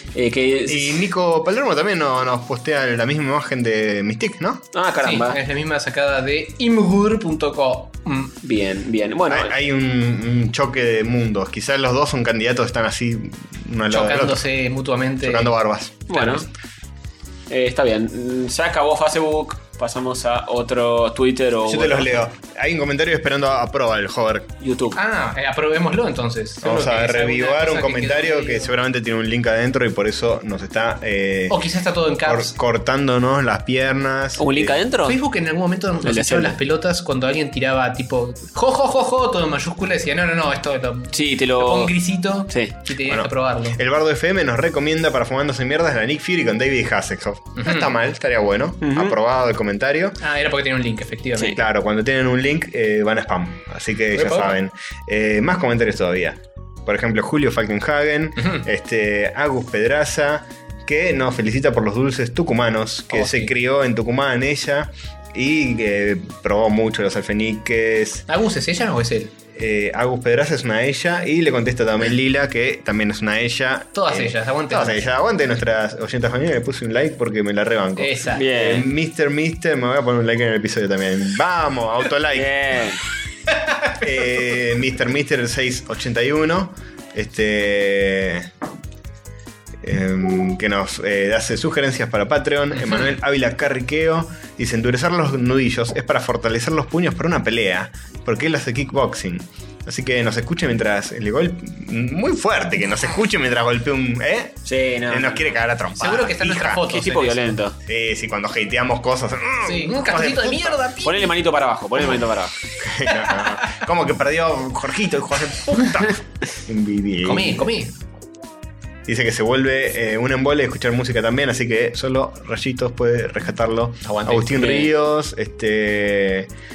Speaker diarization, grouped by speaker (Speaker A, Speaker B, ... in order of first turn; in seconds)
Speaker A: 0.1-1.0, 4.7-5.4, 8.4-9.5, 16.1-16.4, 17.5-22.2, 24.6-25.0, 34.4-35.2, 36.0-36.6, 41.1-42.7, 48.8-49.1, 78.3-78.9, 82.3-83.0, 104.7-105.6, 106.7-107.8, 111.0-112.6, 124.3-124.9
Speaker B: 0.7-4.7, 9.3-14.4, 15.2-16.1, 21.6-24.5, 26.6-31.6, 32.2-34.8, 43.0-50.2, 51.5-68.2, 69.5-82.5, 84.0-88.5, 89.8-106.9, 107.8-110.8, 112.8-117.7, 119.0-126.5
Speaker C: 5.0-8.3, 13.9-15.5, 16.1-16.4, 24.9-28.7, 31.5-32.5, 35.0-43.8, 47.6-47.9, 50.2-51.6, 54.1-54.5, 63.1-63.5, 68.3-69.3, 73.9-75.0, 78.0-78.4, 106.0-107.5, 109.6-111.3, 117.2-117.9, 124.1-124.3